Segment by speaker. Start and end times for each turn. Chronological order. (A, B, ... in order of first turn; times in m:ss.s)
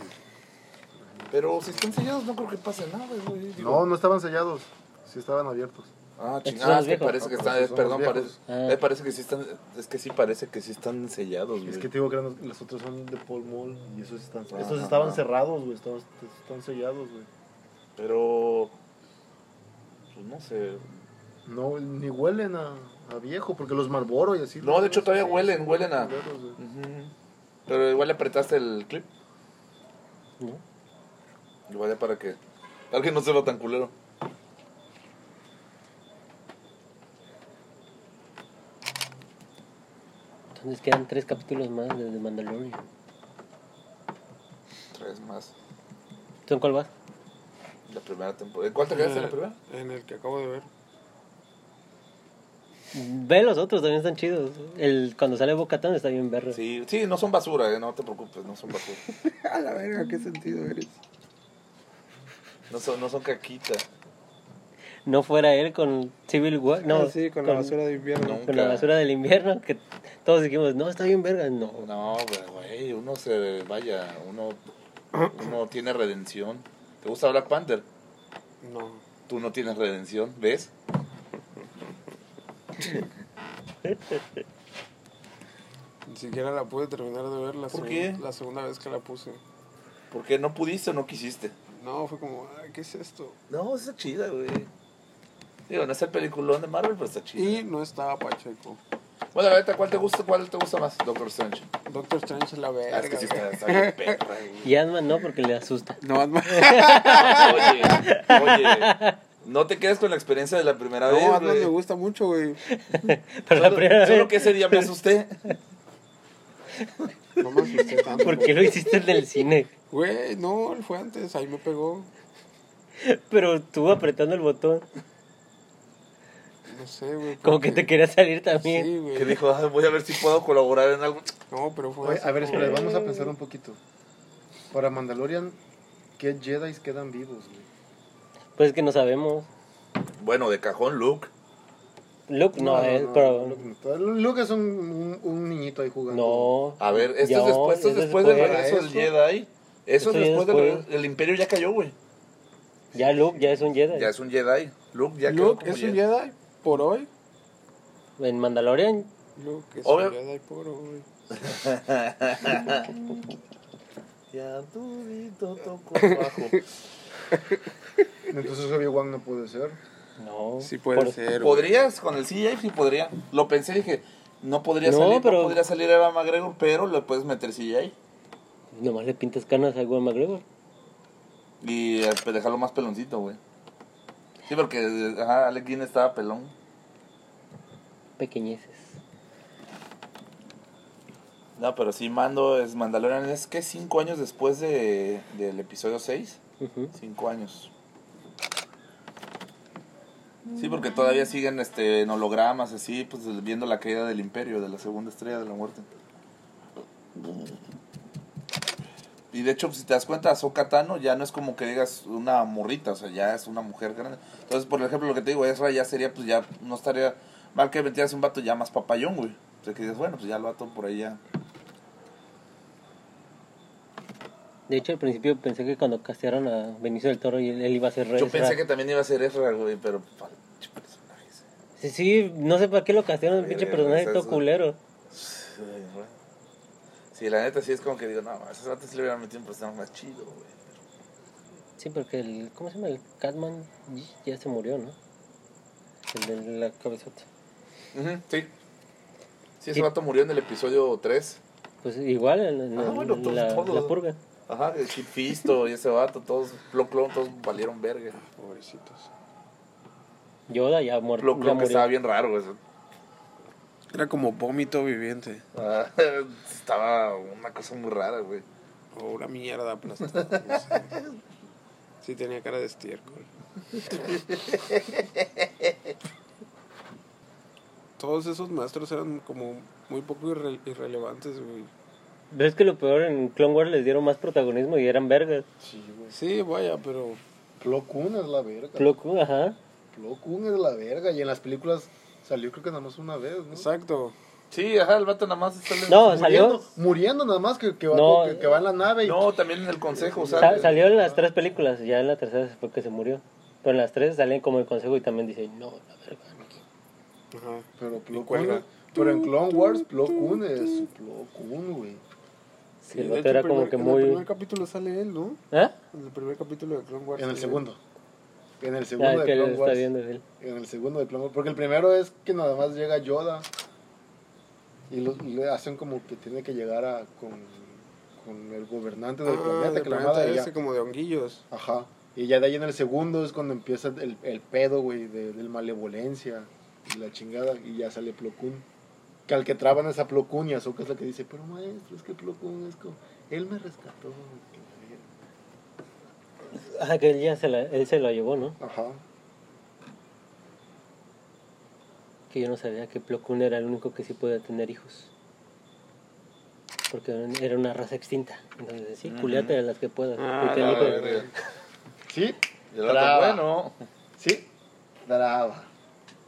0:01.0-0:02.0 A
0:01.3-0:03.9 B
0:03.6-0:05.9 A
0:06.2-0:11.9 B
0:06.4-0:07.4 C
0:07.2-0:08.4 A
0:08.5-0:08.8 C
0:11.6-0:17.3 A
0:14.5-0:15.2 B
0:18.0-0:18.7 B
0:20.1-0:20.8 B
0:21.4-0:26.6 A
0:24.6-0:27.1 B
0:27.7-0:29.1 B
0:31.7-0:32.4 B
0:32.9-0:33.9 B
0:40.5-0:42.8 C
0:44.9-0:45.5 B
0:46.4-0:46.9 C
0:47.9-0:49.6 B
0:48.9-0:50.7 D
0:52.9-0:56.6 C
0:56.5-0:59.0 B
0:59.2-1:00.9 D
1:02.7-1:03.8 B
1:05.0-1:07.8 C
1:06.8-1:08.4 D
1:08.2-1:08.9 B
1:08.4-1:11.9 C
1:11.8-1:14.6 B
1:15.1-1:15.5 D
1:15.2-1:17.8 B
1:18.6-1:19.0 D
1:19.3-1:20.7 B
1:26.0-1:29.4 D
1:27.7-1:28.2 B
1:30.1-1:31.5 B
1:31.7-1:33.4 D
1:33.5-1:34.7 B
1:35.7-1:37.6 B
1:37.4-1:38.8 D
1:39.3-1:41.7 B
1:41.8-1:44.2 D
1:42.9-1:44.7 B
1:44.6-1:49.2 C
1:46.0-1:47.8 D
1:47.2-1:51.7 B
1:51.0-1:52.6 D
1:52.7-1:54.9 C
1:53.5-1:55.6 B
1:57.4-1:58.7 D
1:58.2-1:59.7 C
1:59.9-2:02.1 D
2:03.0-2:04.8 C
2:06.7-2:07.9 D
2:07.4-2:08.9 C
2:08.5-2:09.4 D
2:09.1-2:11.3 B
2:11.5-2:13.3 D
2:12.0-2:13.8 A
2:14.7-2:15.6 A
2:16.2-2:17.7 A
2:18.6-2:19.5 C
2:20.2-2:21.3 B
2:22.3-2:23.6 C
2:22.5-2:26.5 A
2:26.1-2:28.7 C
2:26.8-2:32.0 B
2:28.2-2:29.1 A
2:30.0-2:30.9 C
2:32.9-2:34.1 C
2:33.9-2:36.0 B
2:35.3-2:37.1 D
2:38.2-2:39.1 C
2:39.4-2:41.1 D
2:39.8-2:40.2 B
2:41.3-2:42.9 B
2:44.3-2:46.6 B
2:48.3-2:49.8 A
2:50.2-2:51.2 C
2:50.6-2:51.8 D
2:51.4-2:57.9 B
2:54.8-2:55.6 C
2:58.7-3:00.4 C
3:01.6-3:03.4 B
3:04.4-3:06.5 B
3:08.2-3:09.0 C
3:11.6-3:16.4 B
3:16.6-3:16.9 C
3:16.9-3:17.7 B
3:20.5-3:25.8 B
3:27.1-3:27.6 B
3:29.3-3:41.2 B
3:44.7-3:48.6 C
3:48.2-3:51.4 B
3:51.8-3:54.8 C
3:53.2-3:54.4 B
3:55.1-3:56.1 B
3:57.1-4:00.6 B
4:01.8-4:05.0 C
4:06.1-4:07.2 C
4:07.9-4:08.5 B
4:09.6-4:11.4 B
4:11.8-4:14.2 C
4:12.8-4:14.0 B
4:14.5-4:18.2 B
4:18.1-4:19.1 D
4:20.5-4:21.9 C
4:21.2-4:22.6 B
4:23.9-4:25.4 D
4:25.5-4:28.4 B
4:28.9-4:30.8 D
4:30.3-4:31.2 B
4:32.0-4:33.3 D
4:33.9-4:35.4 B
4:38.0-4:41.7 D
4:42.3-4:45.5 C
4:45.6-4:46.2 A
4:46.1-4:47.2 D
4:47.6-4:49.0 A
4:48.8-4:49.6 C
4:49.9-4:53.7 A
4:53.5-4:54.2 D
4:54.5-4:56.2 B
4:55.9-4:56.8 C
4:56.0-4:59.3 A
4:57.9-4:58.6 C
4:59.0-5:00.8 B
4:59.9-5:01.3 A
5:00.4-5:06.6 C
5:07.3-5:09.2 D
5:07.8-5:12.0 A
5:12.8-5:14.2 C
5:12.9-5:15.4 D
5:15.5-5:15.8 C
5:15.9-5:17.6 D
5:17.2-5:17.8 A
5:18.6-5:19.9 A
5:19.0-5:20.2 C
5:20.4-5:23.5 A
5:24.9-5:30.5 A
5:29.2-5:31.4 D
5:31.5-5:38.7 A
5:39.3-5:45.0 A
5:46.5-5:48.6 C
5:48.6-5:49.0 A
5:52.3-5:55.1 C
5:56.9-6:01.2 C
5:59.0-5:59.6 B
6:00.2-6:01.3 D
6:00.4-6:01.3 B
6:02.1-6:03.5 A
6:02.7-6:03.8 B
6:04.2-6:04.5 A
6:05.0-6:05.7 A